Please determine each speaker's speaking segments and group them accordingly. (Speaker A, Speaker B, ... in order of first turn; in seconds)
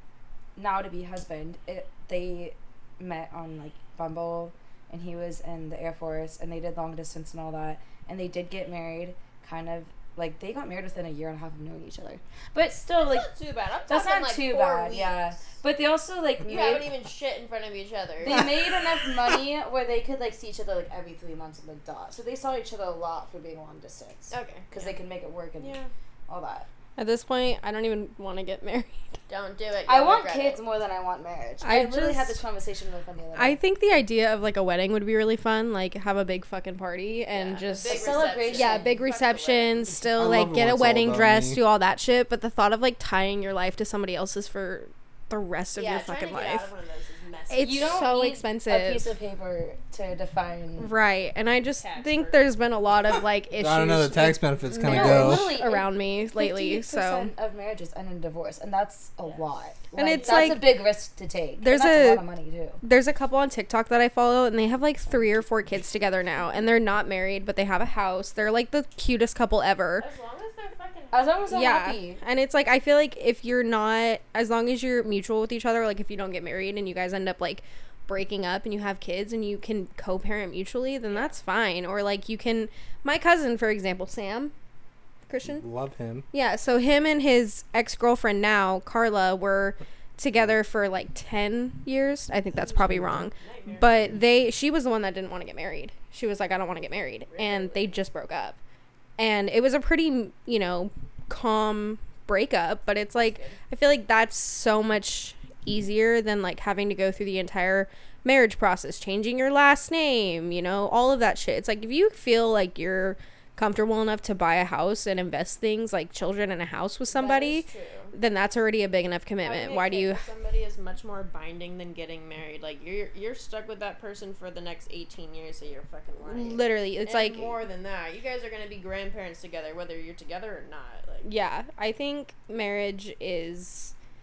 Speaker A: 0.6-13.3, 13.9-16.9, 18.2-26.7, 29.9-33.6, 37.8-39.0, 47.6-50.9, 54.8-62.8, 71.1-72.2
Speaker B: 13.0-15.4, 16.4-18.5, 24.3-24.9, 25.6-25.9, 29.3-30.6, 37.3-39.9, 45.8-48.1, 51.8-52.6, 60.2-60.4, 70.0-71.6, 92.5-93.9, 97.3-98.0, 103.2-103.6, 117.1-118.1, 119.4-131.3
Speaker C: 27.0-29.1, 31.6-32.4, 33.3-46.7, 47.5-49.1, 50.8-57.3, 59.9-60.8, 61.6-62.2, 62.8-70.1, 71.5-84.5, 85.3-85.6, 86.3-98.6, 99.2-120.2, 126.3-127.6, 131.2-133.9
Speaker D: 40.1-41.6, 53.6-55.5, 85.4-86.2